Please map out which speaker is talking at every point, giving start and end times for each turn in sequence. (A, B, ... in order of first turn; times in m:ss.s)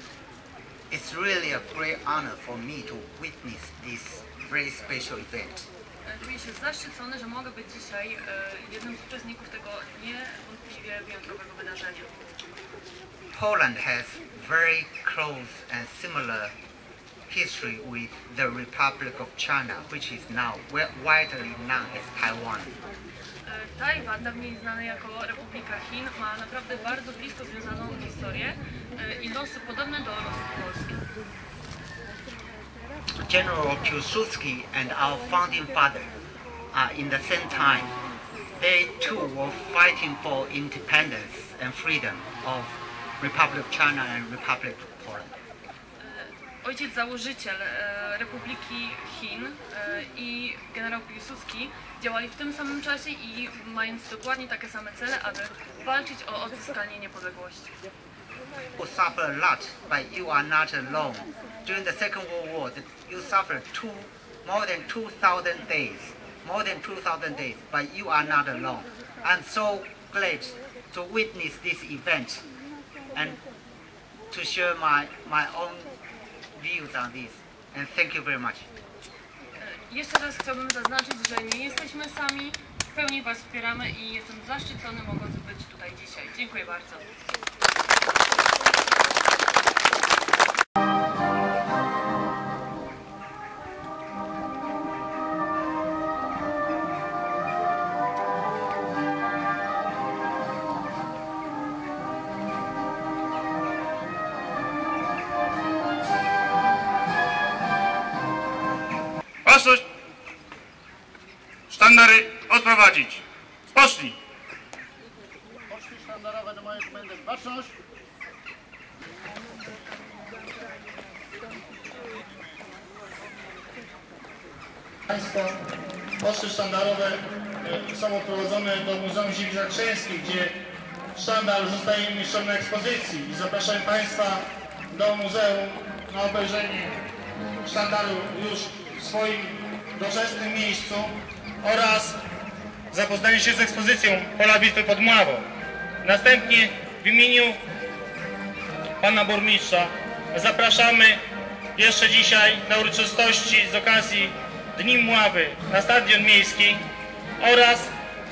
0:00.9-0:05.7 A
0:06.0-0:12.3 B
0:13.3-0:16.5 A
0:17.3-0:22.8 A
0:23.4-0:31.0 B
0:33.2-0:36.1 A
0:36.7-0:37.9 A
0:38.6-0:45.3 A
0:46.0-0:57.7 B
0:58.7-1:12.4 A
1:13.1-1:13.4 A
1:14.3-1:15.9 A
1:16.5-1:18.7 A
1:19.6-1:27.0 B
1:49.4-1:49.8 C
1:51.7-1:54.2 C
1:55.8-1:57.7 D
2:05.1-2:05.6 C
2:06.2-2:10.6 C
2:11.1-2:17.0 C
2:17.6-2:22.2 C
2:22.9-2:25.5 C
2:26.0-2:27.6 C
2:29.0-2:31.2 C
2:31.8-2:36.8 C
2:37.4-2:37.9 C